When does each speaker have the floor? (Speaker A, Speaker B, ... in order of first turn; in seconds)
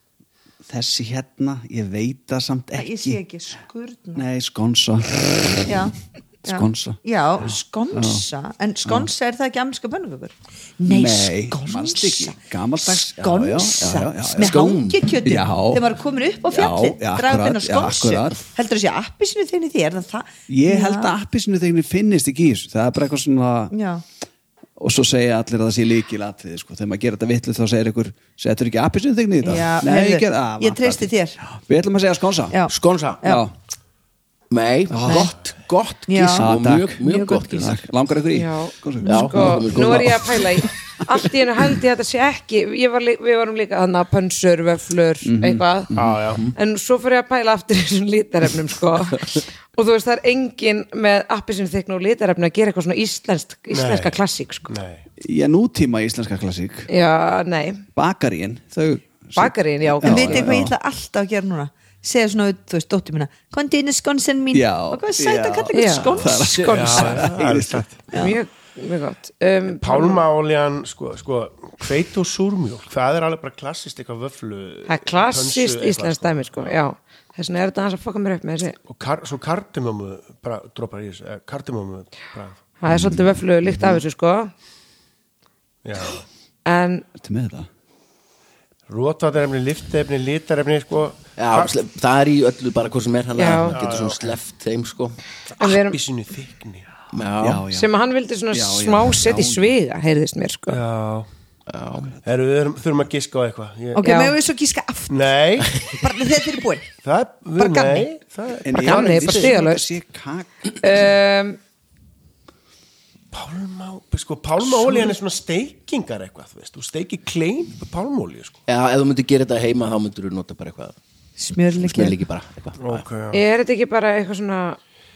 Speaker A: 0.7-3.2, 4.1-5.8, 6.5-7.0, 7.9-8.2, 8.8-9.1, 10.8-14.7, 15.2-15.9, 16.5-18.4, 20.5-23.7, 24.8-32.6, 33.2-33.5, 34.9-35.3, 36.4-40.6, 45.2-46.5, 55.2-56.9, 57.9-60.7, 64.5-67.8, 82.9-83.3, 87.2-87.7, 97.4-97.9, 98.5-99.7, 108.6-110.7
Speaker B: 2.7-4.2, 5.7-12.4, 12.9-21.1, 23.7-24.0, 29.4-31.4, 32.5-33.5, 35.0-35.3, 36.1-37.6, 39.0-39.3, 60.0-66.6, 68.1-68.4, 103.9-105.3, 105.9-106.9, 107.6-108.1, 121.4-122.2
Speaker C: 14.3-15.1, 32.7-33.2, 34.5-37.9, 39.0-40.5, 91.4-95.2, 97.1-97.6, 101.7-102.1, 118.7-121.0, 121.8-123.0
Speaker D: 38.3-45.9, 46.5-54.7, 56.9-57.8, 59.4-60.4, 65.7-67.3, 68.1-70.2, 74.9-78.8, 82.8-84.5, 86.7-87.0, 93.3-93.8, 95.6-96.0, 97.7-100.8, 104.0-104.3, 108.8-109.8, 110.7-111.6, 123.3-124.8
Speaker E: 46.0-46.4, 53.7-54.2, 54.7-55.0, 66.6-68.0, 69.7-76.8, 78.9-82.6, 85.8-86.2, 88.9-91.7, 93.6-94.2, 95.6-96.9, 100.7-101.3, 102.2-104.0, 105.1-105.8, 107.0-109.5, 113.3-118.6, 122.8-123.4